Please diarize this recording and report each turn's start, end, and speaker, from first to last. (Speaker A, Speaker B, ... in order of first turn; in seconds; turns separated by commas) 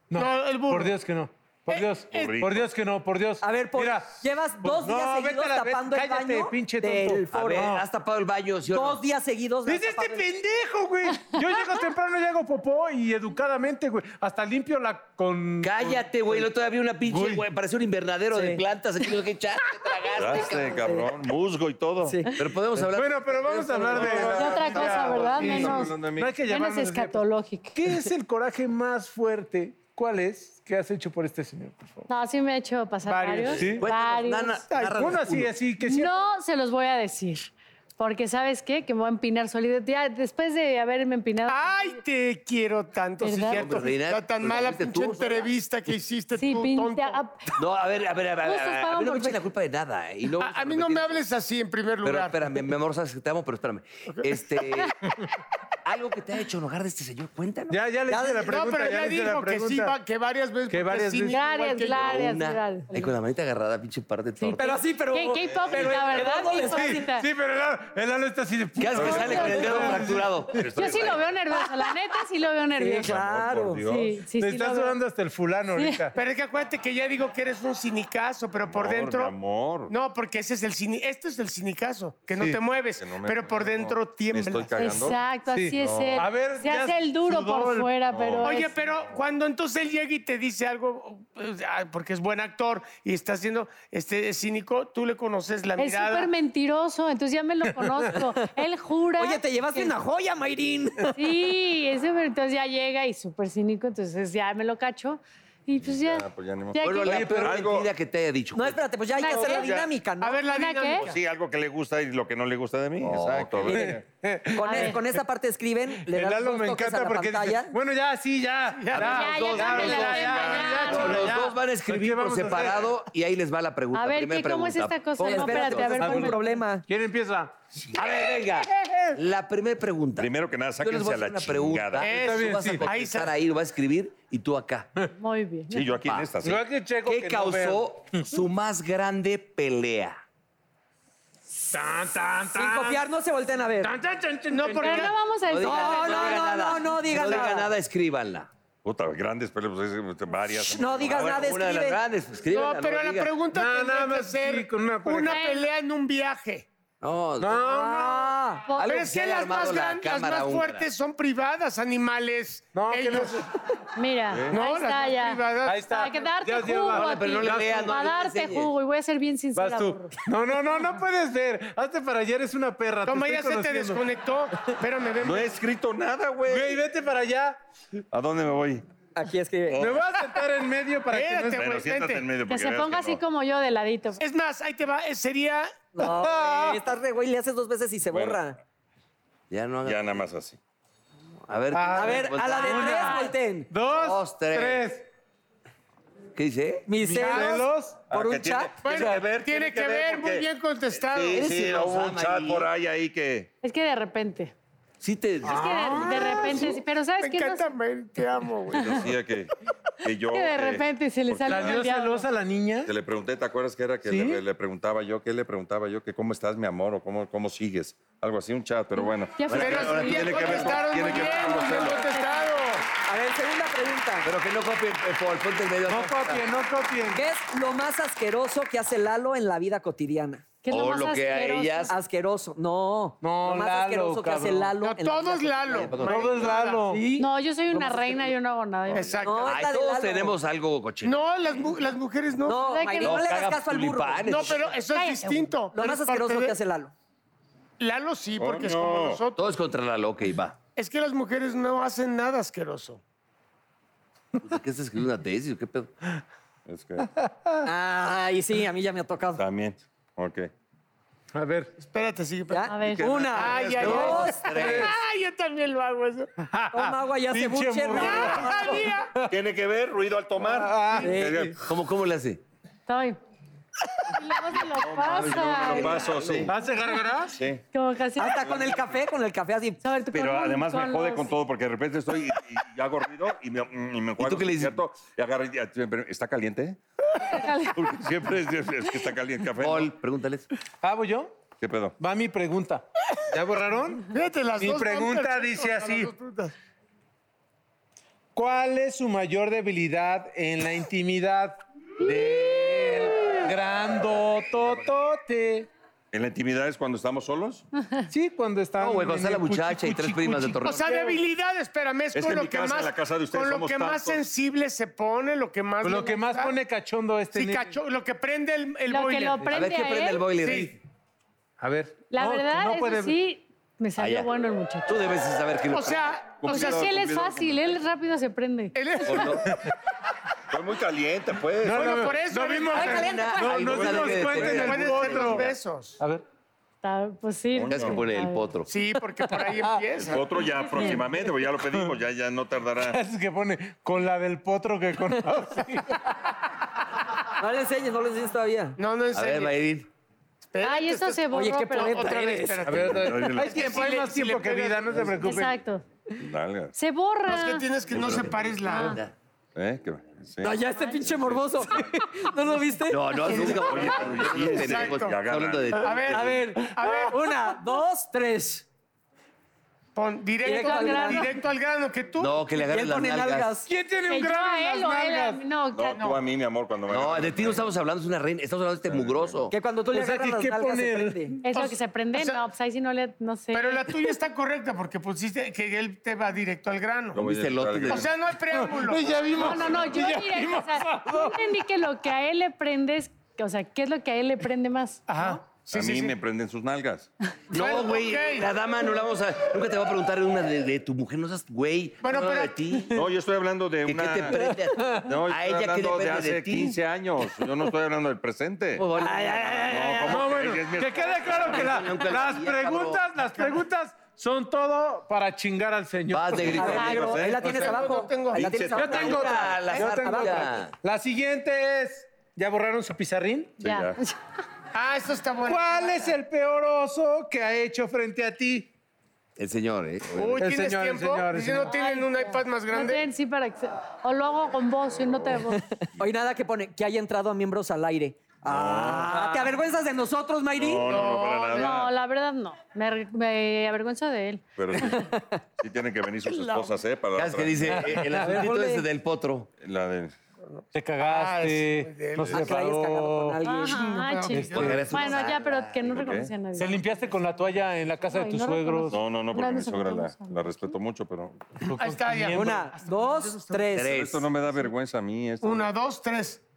Speaker A: 0.1-7.9, Speaker B: 0.1-1.0, Speaker C: 2.1-2.7, Speaker D: 3.4-7.7, Speaker E: 7.3-9.0, Speaker D: 8.7-10.3, Speaker A: 9.7-16.4, Speaker E: 15.6-20.9, Speaker A: 17.1-17.4, Speaker D: 18.3-18.6, Speaker C: 20.1-22.2, Speaker D: 20.8-21.1, Speaker D: 22.1-22.3, Speaker E: 22.4-24.8, Speaker A: 22.9-27.2, Speaker C: 23.9-26.4, Speaker F: 24.2-27.8, Speaker A: 27.8-32.1, Speaker F: 32.1-34.7, Speaker B: 33.1-33.8, Speaker A: 33.6-33.9, Speaker E: 33.6-35.6, Speaker A: 34.8-36.1, Speaker F: 35.8-42.0, Speaker B: 41.5-47.2, Speaker F: 43.2-43.7, Speaker E: 43.5-45.5, Speaker F: 46.4-47.6, Speaker E: 47.6-51.2, Speaker F: 48.4-49.4, Speaker B: 50.4-52.6, Speaker E: 52.0-55.0, Speaker E: 55.9-57.8, Speaker A: 57.7-60.0, Speaker D: 58.1-58.5, Speaker B: 58.5-62.2, Speaker A: 60.7-61.4, Speaker F: 61.3-63.1, Speaker E: 61.9-64.8, Speaker F: 64.4-67.3, Speaker D: 64.6-67.1, Speaker A: 65.8-70.8, Speaker E: 68.8-71.1, Speaker F: 68.9-70.1, Speaker C: 69.0-69.3, Speaker C: 70.6-71.3, Speaker F: 70.6-73.2, Speaker D: 72.8-73.8, Speaker C: 73.0-74.2, Speaker F: 73.8-75.0, Speaker A: 74.4-76.2, Speaker F: 75.8-76.1, Speaker B: 76.1-79.3, Speaker C: 78.6-79.9, Speaker B: 79.9-84.7, Speaker C: 83.0-85.2, Speaker F: 84.8-88.7, Speaker A: 85.5-87.9, Speaker C: 85.7-86.3, Speaker C: 88.1-89.1, Speaker B: 88.4-96.3, Speaker F: 95.8-99.9, Speaker D: 99.2-101.2, Speaker F: 101.2-107.5, Speaker C: 105.8-107.9, Speaker E: 106.8-108.8, Speaker D: 108.5-110.5, Speaker F: 109.1-109.7, Speaker C: 109.4-109.9, Speaker B: 110.2-111.2, Speaker F: 110.5-111.1, Speaker C: 111.0-114.0, Speaker E: 113.0-114.0, Speaker A: 113.7-115.2, Speaker D: 114.5-117.7, Speaker F: 114.6-115.0, Speaker A: 116.0-122.9, Speaker E: 118.9-126.0, Speaker F: 118.9-121.4, Speaker C: 120.0-121.2, Speaker F: 123.9-126.6, Speaker D: 125.2-126.9, Speaker A: 126.0-127.5, Speaker E: 127.9-134.9, Speaker A: 128.8-129.2, Speaker C: 130.2-132.1, Speaker B: 132.0-133.3, Speaker A: 132.1-132.8, Speaker F: 135.2-135.9, Speaker C: 135.7-136.7, Speaker A: 136.4-138.3, Speaker E: 137.0-140.2, Speaker A: 141.7-143.1, Speaker D: 142.5-143.9, Speaker A: 143.8-145.1, Speaker B: 144.5-145.2, Speaker F: 144.7-146.6, Speaker E: 145.4-148.5, Speaker D: 145.6-147.7, Speaker C: 148.8-151.5, Speaker D: 150.5-152.0, Speaker E: 151.1-153.4, Speaker B: 152.5-156.7, Speaker A: 153.5-155.4, Speaker F: 155.2-155.7, Speaker E: 157.0-157.7, Speaker A: 157.4-158.4, Speaker D: 157.5-158.7, Speaker E: 158.8-160.9, Speaker B: 158.8-163.5, Speaker A: 162.7-163.5, Speaker F: 164.0-170.2, Speaker C: 164.3-164.6, Speaker B: 164.5-165.8, Speaker A: 165.7-167.9, Speaker E: 166.9-168.7, Speaker A: 169.6-174.0, Speaker B: 173.0-175.5, Speaker C: 175.2-176.8, Speaker A: 176.5-177.6, Speaker C: 178.1-178.9, Speaker D: 179.2-179.9, Speaker C: 179.7-180.1, Speaker A: 179.8-181.7, Speaker B: 181.1-182.3, Speaker C: 181.5-183.2, Speaker F: 182.5-184.2, Speaker B: 184.2-185.7, Speaker D: 185.9-188.6, Speaker A: 186.0-186.8, Speaker C: 188.1-188.4, Speaker E: 189.5-190.2, Speaker C: 189.8-190.6, Speaker E: 191.5-193.2, Speaker A: 191.7-195.1, Speaker D: 191.9-193.7, Speaker E: 193.8-194.9, Speaker E: 196.3-196.9, Speaker D: 196.9-198.7, Speaker A: 197.0-198.0, Speaker B: 197.2-197.6, Speaker C: 198.1-203.5, Speaker B: 198.8-201.5, Speaker A: 198.9-199.3, Speaker E: 201.3-202.7, Speaker F: 203.6-204.5, Speaker E: 205.0-206.7, Speaker A: 205.4-206.7, Speaker F: 205.4-207.7, Speaker B: 206.3-209.1, Speaker C: 208.7-211.8, Speaker F: 210.3-212.3, Speaker A: 211.5-212.9, Speaker C: 212.8-222.0, Speaker A: 214.1-214.4, Speaker F: 219.0-222.7, Speaker E: 219.5-220.9, Speaker B: 219.5-222.8, Speaker D: 223.0-224.3, Speaker E: 224.2-226.5, Speaker A: 225.9-227.3, Speaker D: 227.1-230.5, Speaker F: 230.6-231.9, Speaker E: 230.7-231.9, Speaker D: 231.9-235.9, Speaker A: 233.2-234.7, Speaker B: 234.8-236.9, Speaker E: 235.7-236.6, Speaker A: 236.1-237.2, Speaker D: 236.9-238.3, Speaker F: 237.2-239.2, Speaker B: 238.9-239.6, Speaker D: 239.2-240.3, Speaker E: 239.4-241.2, Speaker B: 241.0-242.6, Speaker D: 242.4-244.6, Speaker F: 242.7-243.3, Speaker E: 243.0-244.8, Speaker B: 244.3-246.6, Speaker F: 244.9-245.5, Speaker D: 245.7-246.9, Speaker B: 247.8-249.5, Speaker C: 248.4-249.2, Speaker E: 249.4-250.6, Speaker B: 250.8-253.0, Speaker E: 254.4-255.9, Speaker C: 256.7-257.1, Speaker A: 257.2-257.6, Speaker D: 257.6-259.4, Speaker C: 259.4-260.5, Speaker A: 261.3-261.7, Speaker B: 261.8-266.3, Speaker D: 262.5-264.5, Speaker F: 262.7-263.2, Speaker E: 263.0-265.0, Speaker A: 266.4-269.3, Speaker D: 266.7-268.9, Speaker B: 267.9-269.1, Speaker C: 269.3-271.6, Speaker A: 270.4-271.6, Speaker D: 271.0-271.5, Speaker E: 271.6-272.4, Speaker F: 272.9-273.2, Speaker F: 274.1-276.1, Speaker C: 274.5-276.5, Speaker E: 275.1-276.5, Speaker A: 276.4-277.4, Speaker C: 277.3-277.6, Speaker F: 277.7-278.5, Speaker D: 278.2-279.8, Speaker C: 278.3-278.9, Speaker F: 279.8-281.4, Speaker C: 280.1-286.8, Speaker E: 284.2-284.8, Speaker F: 287.3-287.9, Speaker C: 287.4-289.9, Speaker E: 289.6-290.5, Speaker A: 290.8-291.3, Speaker C: 291.6-292.0, Speaker A: 292.0-296.1, Speaker B: 294.1-296.5, Speaker A: 298.4-305.7, Speaker E: 302.1-303.1, Speaker C: 306.1-307.6, Speaker A: 308.1-311.2, Speaker E: 308.8-310.9, Speaker B: 310.6-316.6, Speaker C: 312.1-314.2, Speaker A: 315.8-317.8, Speaker B: 317.3-319.6, Speaker F: 318.9-320.3, Speaker E: 319.5-320.8, Speaker B: 320.4-320.7, Speaker A: 321.6-323.2, Speaker F: 322.1-325.2, Speaker E: 324.0-324.3, Speaker E: 324.9-326.8, Speaker B: 325.7-326.9, Speaker F: 326.4-329.0, Speaker C: 326.4-327.7, Speaker B: 328.8-329.5, Speaker E: 329.1-329.6, Speaker C: 330.5-332.1, Speaker A: 331.6-335.4, Speaker B: 331.7-333.2, Speaker D: 332.7-333.8, Speaker E: 332.7-335.6, Speaker B: 333.8-336.0, Speaker F: 336.8-338.5, Speaker C: 337.5-338.0, Speaker E: 337.7-338.7, Speaker B: 338.7-340.5, Speaker C: 340.0-343.0, Speaker F: 340.7-341.0, Speaker A: 342.9-346.2, Speaker D: 347.3-348.8, Speaker B: 348.8-349.6, Speaker E: 349.1-349.9, Speaker B: 350.5-355.2, Speaker F: 350.6-352.2, Speaker D: 351.3-352.8, Speaker A: 352.7-355.6, Speaker C: 352.7-353.8, Speaker F: 355.1-355.8, Speaker C: 356.2-356.8, Speaker F: 356.8-357.7, Speaker B: 357.3-359.0, Speaker C: 357.9-358.4, Speaker E: 357.9-359.1, Speaker F: 358.7-359.0, Speaker C: 359.6-361.9, Speaker D: 360.4-363.6, Speaker E: 362.9-366.3, Speaker C: 363.3-366.2, Speaker B: 363.7-365.2, Speaker B: 365.8-367.3, Speaker D: 366.1-368.7, Speaker B: 369.9-372.4, Speaker D: 370.4-371.3, Speaker F: 370.4-371.4, Speaker E: 372.2-373.6, Speaker D: 372.7-373.7, Speaker A: 373.7-375.4, Speaker F: 374.1-376.1, Speaker C: 375.7-377.7, Speaker B: 376.0-376.2, Speaker E: 376.9-379.5, Speaker C: 378.9-379.5, Speaker D: 379.5-381.4, Speaker A: 379.9-381.4, Speaker F: 381.4-383.9, Speaker B: 381.5-382.4, Speaker B: 383.5-387.2, Speaker C: 387.1-388.1, Speaker E: 387.2-388.1, Speaker B: 387.9-389.8, Speaker A: 388.5-391.5, Speaker F: 389.3-395.2, Speaker C: 389.4-390.0, Speaker A: 395.1-395.4, Speaker B: 395.2-396.1, Speaker C: 395.7-397.1, Speaker E: 397.5-403.0, Speaker B: 397.5-398.5, Speaker B: 402.0-402.6, Speaker C: 402.9-408.9, Speaker E: 403.9-406.8, Speaker A: 404.4-405.1, Speaker E: 408.8-410.0, Speaker D: 409.0-410.1, Speaker C: 409.5-411.8, Speaker A: 410.0-416.7, Speaker E: 411.2-413.1, Speaker E: 416.1-417.2, Speaker C: 416.4-417.6, Speaker D: 416.5-420.5, Speaker B: 417.3-418.6, Speaker C: 418.4-418.9, Speaker E: 418.5-420.8, Speaker A: 418.7-423.6, Speaker C: 423.6-424.0, Speaker F: 423.6-424.2, Speaker B: 424.7-426.1, Speaker A: 425.5-428.7, Speaker E: 429.4-430.5, Speaker B: 430.1-433.1, Speaker A: 430.4-431.7, Speaker F: 431.6-435.6, Speaker C: 435.0-436.1, Speaker D: 436.0-440.9, Speaker C: 438.4-439.2, Speaker A: 439.1-439.5, Speaker C: 440.5-441.9, Speaker B: 440.9-441.8, Speaker F: 441.5-445.0, Speaker C: 444.6-448.0, Speaker B: 446.3-446.7, Speaker E: 447.1-449.5, Speaker A: 447.7-448.5, Speaker D: 448.2-448.9, Speaker C: 449.6-450.1, Speaker B: 450.5-452.6, Speaker A: 450.7-453.4, Speaker D: 452.3-454.0, Speaker F: 453.4-456.9, Speaker B: 453.6-454.9, Speaker A: 454.3-455.0, Speaker E: 454.5-456.2, Speaker C: 455.8-456.3, Speaker A: 456.5-459.0, Speaker F: 458.0-460.7, Speaker C: 458.9-461.6, Speaker A: 461.6-462.6, Speaker B: 461.8-463.7, Speaker D: 462.3-464.0, Speaker E: 463.7-464.3, Speaker C: 463.9-465.7, Speaker B: 465.4-466.4